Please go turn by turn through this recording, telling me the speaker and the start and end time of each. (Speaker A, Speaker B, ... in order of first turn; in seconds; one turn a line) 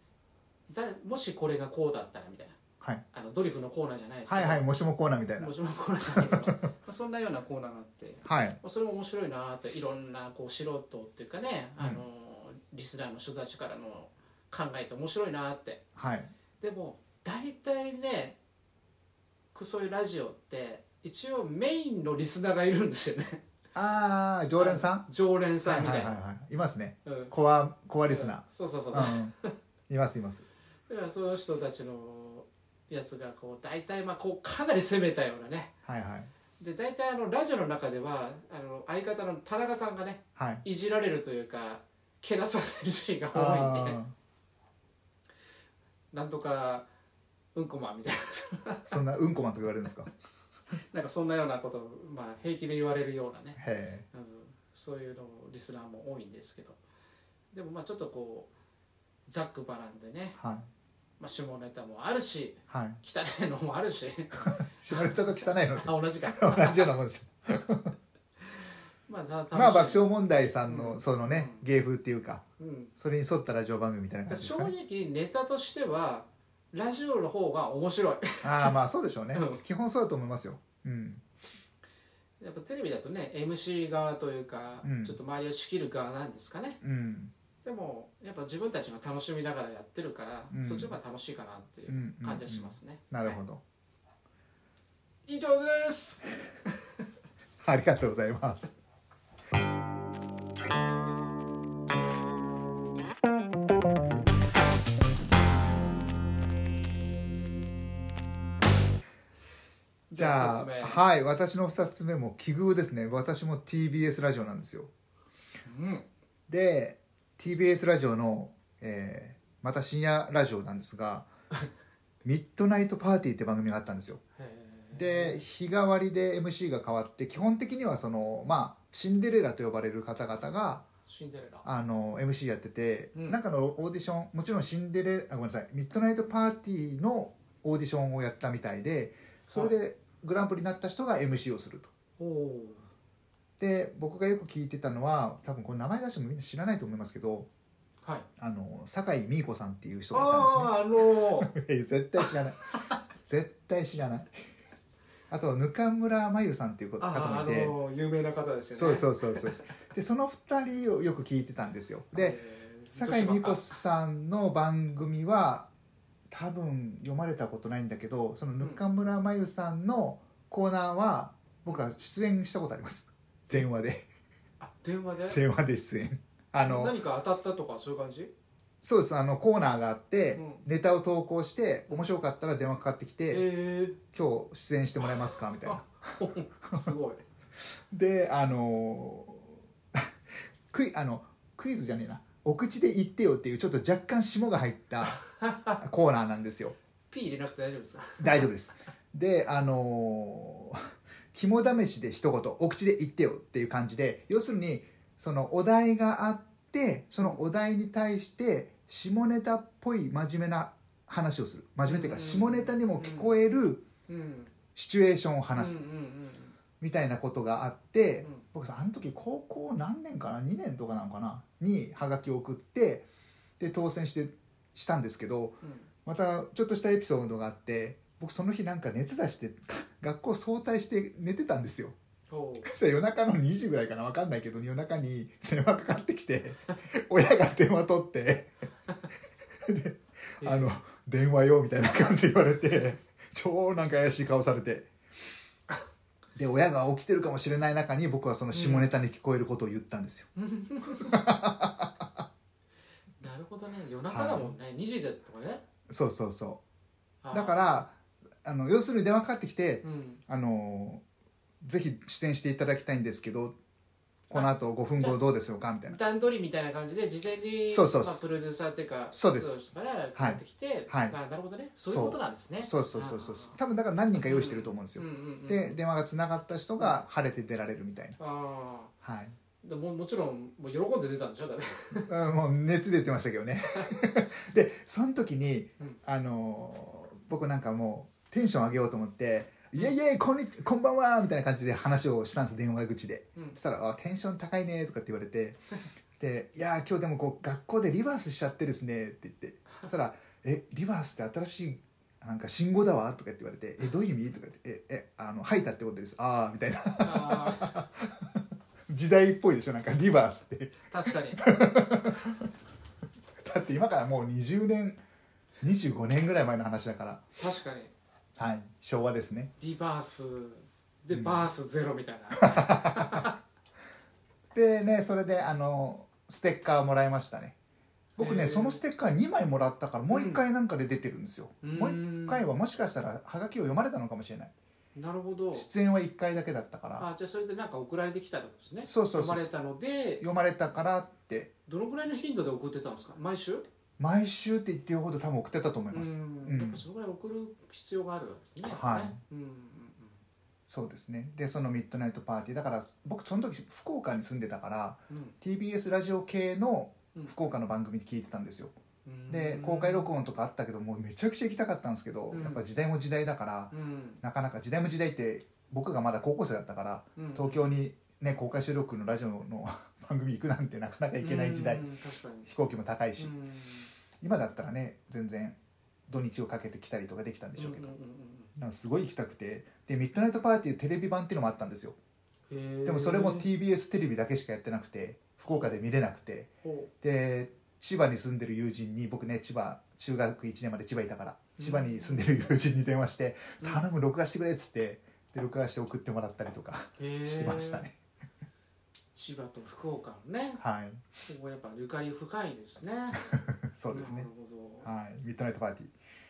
Speaker A: 0.7-2.6
Speaker A: 3.1-4.6
Speaker B: 4.3-5.5
Speaker A: 5.4-15.8
Speaker B: 6.1-6.6
Speaker B: 8.2-8.6
Speaker B: 16.0-16.3
Speaker A: 16.6-18.4
Speaker A: 19.5-23.4
Speaker B: 23.8-25.1
Speaker A: 24.6-26.2
Speaker B: 25.6-29.4
Speaker A: 27.1-27.3
Speaker A: 28.1-29.5
Speaker B: 29.9-30.5
Speaker A: 30.9-35.7
Speaker B: 35.9-36.3
Speaker A: 36.6-44.0
Speaker B: 40.4-40.6
Speaker B: 43.3-44.1
Speaker A: 46.1-46.9
Speaker A: 47.5-49.0
Speaker B: 48.9-50.1
Speaker A: 50.9-56.8
Speaker B: 53.6-54.1
Speaker A: 57.5-58.5
Speaker A: 59.3-60.4
Speaker B: 60.4-60.7
Speaker A: 61.2-67.0
Speaker B: 62.7-63.0
Speaker B: 64.5-67.9
Speaker A: 69.1-71.6
Speaker B: 69.5-72.4
Speaker A: 72.6-72.9
Speaker B: 73.0-74.7
Speaker A: 74.3-78.8
Speaker B: 78.4-81.2
Speaker A: 79.3-79.6
Speaker A: 82.4-86.8
Speaker B: 84.8-85.2
Speaker B: 86.8-87.3
Speaker A: 87.6-93.4
Speaker B: 90.5-91.0
Speaker B: 91.9-93.6
Speaker A: 95.3-96.3
Speaker B: 97.6-98.8
Speaker A: 110.1-111.0
Speaker B: 110.2-114.9
Speaker A: 115.7-116.1
Speaker B: 116.5-121.3
Speaker B: 122.2-124.2
Speaker A: 124.4-125.4
Speaker B: 124.9-130.9
Speaker A: 131.1-131.7
Speaker B: 131.7-141.9
Speaker A: 133.1-133.4
Speaker A: 142.2-142.9
Speaker B: 143.6-147.5
Speaker B: 148.4-152.6
Speaker A: 150.1-151.5
Speaker A: 152.3-152.9
Speaker B: 153.2-154.4
Speaker B: 155.3-157.7
Speaker A: 157.0-159.8
Speaker B: 158.8-162.4
Speaker A: 162.2-163.8
Speaker B: 162.9-165.7
Speaker B: 166.3-174.1
Speaker A: 174.6-175.4
Speaker B: 175.3-177.0
Speaker A: 176.6-178.3
Speaker B: 178.8-183.5
Speaker A: 180.3-180.7
Speaker A: 183.3-184.0
Speaker B: 184.1-186.9
Speaker A: 185.6-187.2
Speaker B: 187.9-190.1
Speaker B: 190.7-196.8
Speaker A: 195.4-195.8
Speaker A: 197.1-198.5
Speaker B: 198.2-213.8
Speaker A: 211.8-213.4
Speaker A: 214.1-214.5
Speaker B: 214.8-215.8
Speaker A: 215.5-216.6
Speaker B: 216.8-223.1
Speaker B: 223.6-231.9
Speaker A: 225.6-225.9
Speaker A: 232.3-232.7
Speaker B: 232.7-238.5
Speaker B: 239.6-244.9
Speaker A: 240.4-240.7
Speaker B: 246.4-250.3
Speaker A: 248.5-248.9
Speaker A: 250.4-251.2
Speaker B: 251.0-252.2
Speaker A: 253.2-255.6
Speaker B: 254.1-254.5
Speaker B: 255.9-256.6
Speaker A: 257.2-257.7
Speaker B: 257.3-261.0
Speaker A: 259.8-260.2
Speaker B: 261.6-263.6
Speaker B: 264.3-266.0
Speaker A: 264.3-265.2
Speaker A: 265.9-273.6
Speaker B: 267.7-268.2
Speaker B: 269.1-269.6
Speaker B: 270.1-271.2
Speaker B: 271.9-278.2
Speaker A: 274.3-275.8
Speaker A: 278.2-278.9
Speaker B: 279.0-279.4
Speaker A: 279.6-282.1
Speaker B: 282.1-295.6
Speaker B: 296.2-312.5
Speaker A: 307.0-307.8
Speaker A: 310.9-311.4
Speaker B: 313.4-315.0
Speaker B: 315.6-317.2
Speaker A: 317.4-317.9
Speaker B: 318.4-319.5
Speaker A: 319.6-323.4
Speaker B: 321.1-321.4
Speaker B: 322.4-323.3
Speaker B: 324.5-327.6
Speaker B: 328.2-334.5
Speaker A: 328.2-328.8
Speaker A: 330.1-330.4
Speaker A: 331.6-332.4
Speaker A: 334.9-335.7
Speaker B: 335.5-337.1
Speaker A: 337.0-340.3
Speaker B: 338.9-339.5
Speaker B: 340.2-341.5
Speaker A: 341.7-343.6
Speaker B: 344.0-346.8
Speaker A: 345.9-350.2
Speaker B: 348.6-349.2
Speaker B: 350.7-358.7
Speaker A: 355.1-355.4
Speaker A: 359.1-360.1
Speaker B: 359.3-371.9
Speaker A: 362.3-362.6
Speaker A: 363.7-364.2
Speaker A: 367.2-367.7
Speaker A: 371.2-372.5
Speaker B: 372.5-373.3
Speaker A: 373.2-373.9
Speaker B: 374.2-377.9
Speaker A: 377.6-378.5
Speaker B: 378.6-382.0
Speaker A: 382.5-383.5
Speaker B: 382.9-386.5
Speaker A: 385.5-385.7
Speaker A: 386.6-386.9
Speaker B: 387.0-397.9
Speaker A: 391.6-392.2
Speaker A: 393.6-393.9
Speaker A: 397.0-397.9
Speaker A: 399.1-400.6
Speaker B: 400.6-401.0
Speaker A: 401.3-403.3
Speaker B: 403.2-404.3
Speaker A: 403.9-404.9
Speaker B: 404.8-405.9